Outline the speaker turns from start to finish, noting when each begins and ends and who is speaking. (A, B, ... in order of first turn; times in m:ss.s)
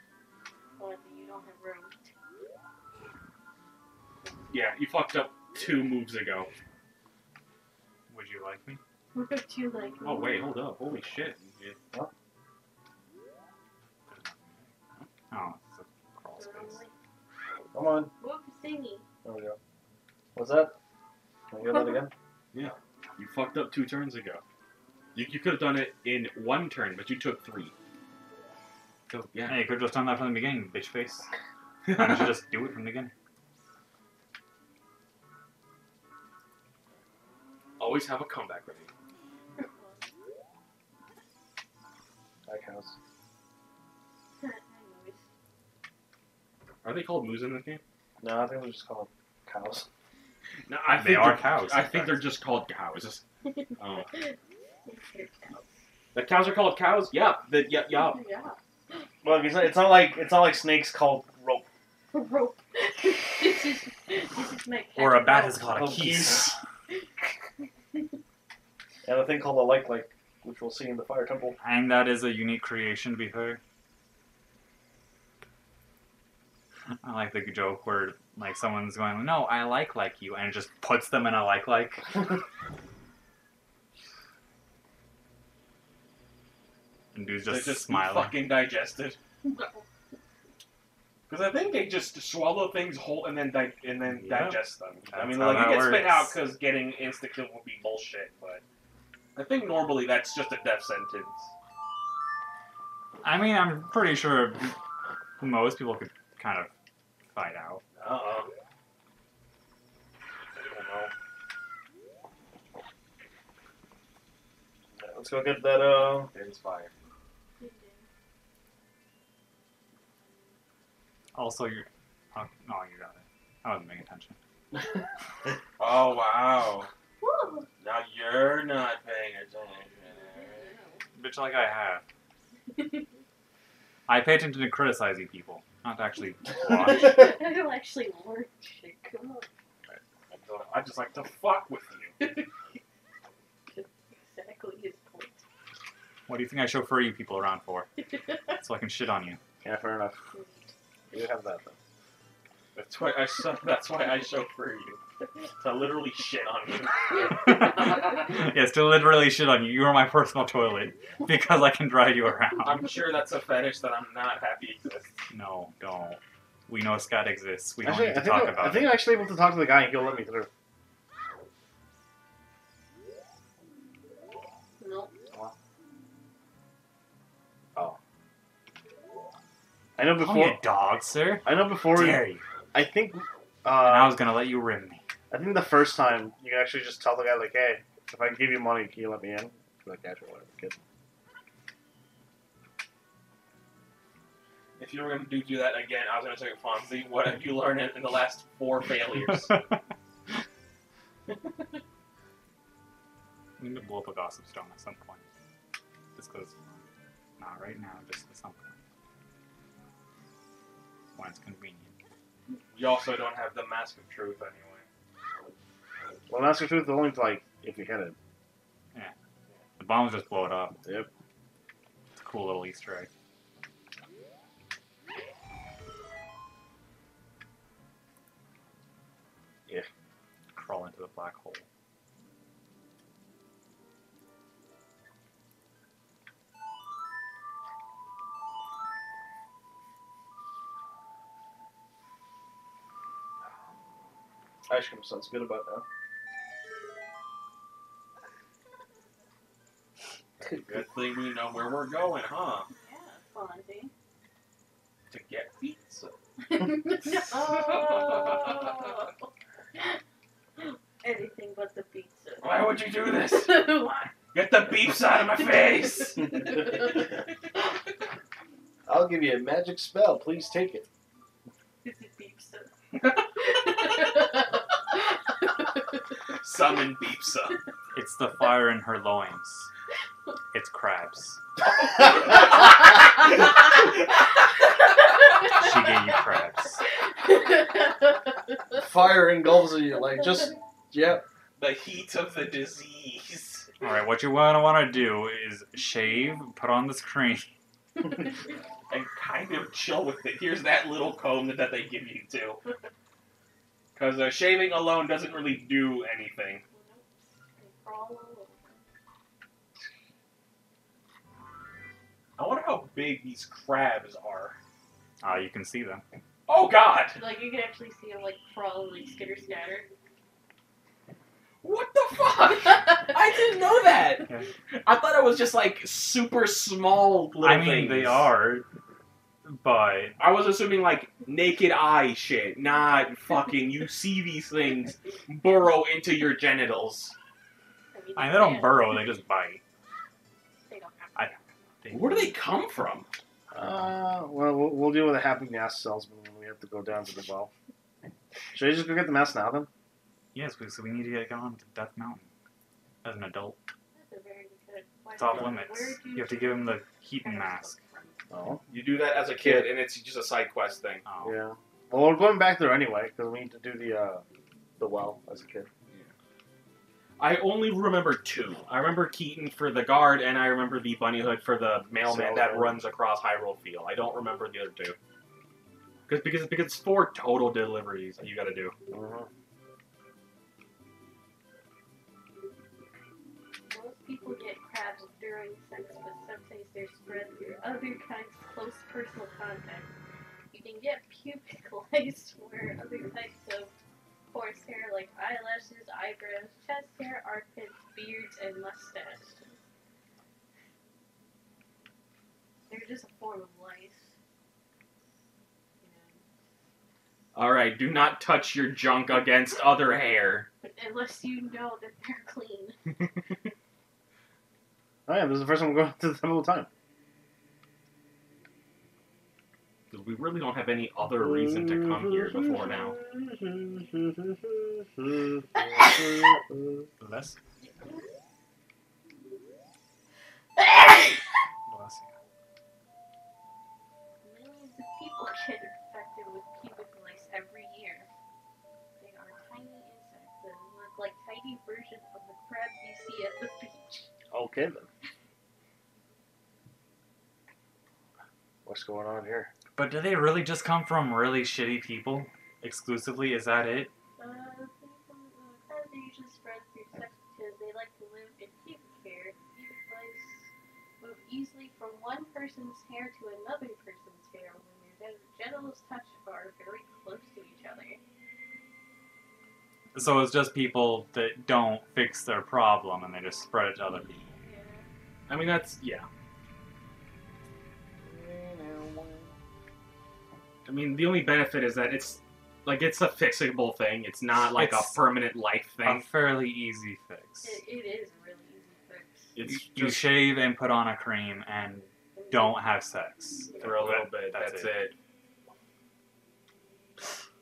0:00.8-0:02.1 A
0:04.5-0:06.5 B
0:08.1-0:08.8 C
0:09.1-0:10.4 A
0:10.0-0:11.8 B
0:14.1-0:14.7 C
0:15.3-0:16.8 C
0:16.4-0:16.9 A
0:17.7-0:18.1 D
0:18.2-0:19.0 A
0:19.2-0:19.6 D
0:20.3-0:20.7 D
0:21.5-0:22.1 D
0:22.5-0:24.4 B
0:25.1-0:27.7 B
0:29.1-0:31.2 C
0:29.3-0:29.6 B
0:31.8-0:32.3 B
0:31.9-0:33.1 C
0:37.8-0:38.9 B
0:39.7-0:40.1 A
0:42.5-0:42.9 D
0:44.4-0:45.2 A
0:46.8-0:47.8 B
0:48.2-0:49.9 D
0:50.7-0:53.2 B
0:50.9-0:52.3 C
0:53.5-0:55.7 A
0:53.8-0:54.1 B
0:56.1-0:58.2 B
0:57.9-0:59.1 A
0:59.2-1:01.7 D
1:02.1-1:06.2 A
1:05.0-1:06.6 C
1:05.7-1:06.6 D
1:09.0-1:11.6 D
1:11.6-1:13.6 C
1:17.0-1:22.4 C
1:27.1-1:28.4 C
1:27.5-1:29.2 B
1:29.4-1:29.8 A
1:31.3-1:38.6 B
1:34.1-1:34.6 C
1:35.1-1:36.4 C
1:39.3-1:41.4 B
1:43.2-1:44.8 C
1:45.4-1:46.7 C
1:47.3-1:47.8 C
1:48.0-1:48.5 B
1:50.6-1:51.1 B
1:55.0-1:56.3 D
1:56.3-1:56.9 B
1:57.6-1:58.1 A
2:01.3-2:04.4 C
2:05.8-2:06.9 B
2:07.2-2:07.7 A
2:07.8-2:10.7 B
2:10.1-2:11.0 A
2:11.1-2:12.0 C
2:12.7-2:13.0 A
2:14.1-2:17.4 C
2:16.6-2:19.5 A
2:19.9-2:22.2 B
2:22.2-2:22.5 A
2:23.7-2:25.4 A
2:26.3-2:27.9 C
2:28.2-2:28.6 A
2:28.6-2:29.4 C
2:29.6-2:30.2 D
2:30.3-2:30.7 A
2:31.1-2:31.8 D
2:32.7-2:35.0 B
2:35.6-2:37.3 B
2:37.3-2:42.9 C
2:42.6-2:45.1 B
2:45.3-2:49.0 C
2:47.8-2:50.5 D
2:54.8-2:55.1 A
3:00.0-3:00.6 D
3:00.2-3:02.4 C
3:01.4-3:04.2 D
3:03.8-3:05.0 C
3:05.3-3:10.8 D
3:14.8-3:19.6 B
3:23.6-3:25.2 C
3:26.2-3:26.8 C
3:27.4-3:28.7 C
3:31.1-3:31.9 C
3:32.7-3:34.9 B
3:36.3-3:38.2 D
3:39.8-3:40.8 C
3:42.2-3:43.1 C
3:50.5-3:51.6 C
4:04.7-4:05.8 D
4:10.4-4:12.7 B
4:12.7-4:13.9 A
4:15.1-4:16.2 B
4:16.5-4:20.0 A
4:17.0-4:18.9 B
4:20.6-4:24.1 A
4:22.4-4:23.7 B
4:24.3-4:26.4 B
4:26.2-4:26.7 A
4:28.9-4:30.9 D
4:31.8-4:35.8 A
4:36.4-4:37.6 B
4:37.9-4:39.7 C
4:40.5-4:41.4 C
4:45.4-4:46.8 C
4:47.1-4:48.2 A
4:48.7-4:51.2 D
4:51.6-4:53.7 B
4:53.8-4:57.5 C
4:58.9-5:02.6 B
5:03.9-5:06.6 B
5:06.7-5:08.8 A
5:12.4-5:14.6 B
5:15.2-5:16.0 C
5:16.5-5:17.2 B
5:17.2-5:19.9 A
5:21.6-5:28.3 B
5:27.4-5:28.6 C
5:29.4-5:30.2 C
5:30.2-5:37.1 B
5:37.9-5:39.1 A
5:38.2-5:39.6 C
5:40.7-5:41.4 A
5:41.2-5:42.3 C
5:41.9-5:43.1 B
5:43.5-5:47.5 D
5:48.5-5:49.7 D
5:50.3-5:52.3 C
5:53.0-5:53.6 C
5:53.9-5:58.1 A
5:55.2-5:57.8 C
5:58.3-5:58.6 D
5:58.7-6:01.0 B
5:59.3-5:59.7 D
6:01.0-6:01.4 C
6:01.2-6:04.2 D
6:04.8-6:05.7 D
6:07.2-6:15.0 B
6:12.0-6:12.8 D
6:16.1-6:18.7 B
6:18.9-6:19.3 D
6:23.7-6:29.9 A
6:30.5-6:33.7 A
6:34.3-6:39.6 A
6:42.7-6:44.1 A
6:45.8-6:46.2 A
6:47.3-6:50.5 B
6:50.6-6:52.8 A
6:55.1-6:56.7 D
6:59.9-7:03.0 B
7:01.3-7:06.9 D
7:07.0-7:07.4 C
7:07.6-7:08.0 A
7:11.7-7:12.1 C
7:14.2-7:18.1 A
7:19.0-7:24.1 A
7:24.3-7:24.9 D
7:28.6-7:29.5 D
7:29.7-7:33.9 C
7:34.2-7:40.5 A
7:41.0-7:48.0 A
7:49.9-7:54.3 C
7:54.3-7:54.8 A
7:55.3-7:56.1 B
7:58.0-7:59.3 D
8:00.6-8:06.0 B
8:04.5-8:05.0 C
8:05.8-8:07.6 C
8:07.4-8:09.3 A
8:09.4-8:10.1 B
8:09.4-8:14.9 C
8:12.2-8:12.6 A
8:13.6-8:14.9 B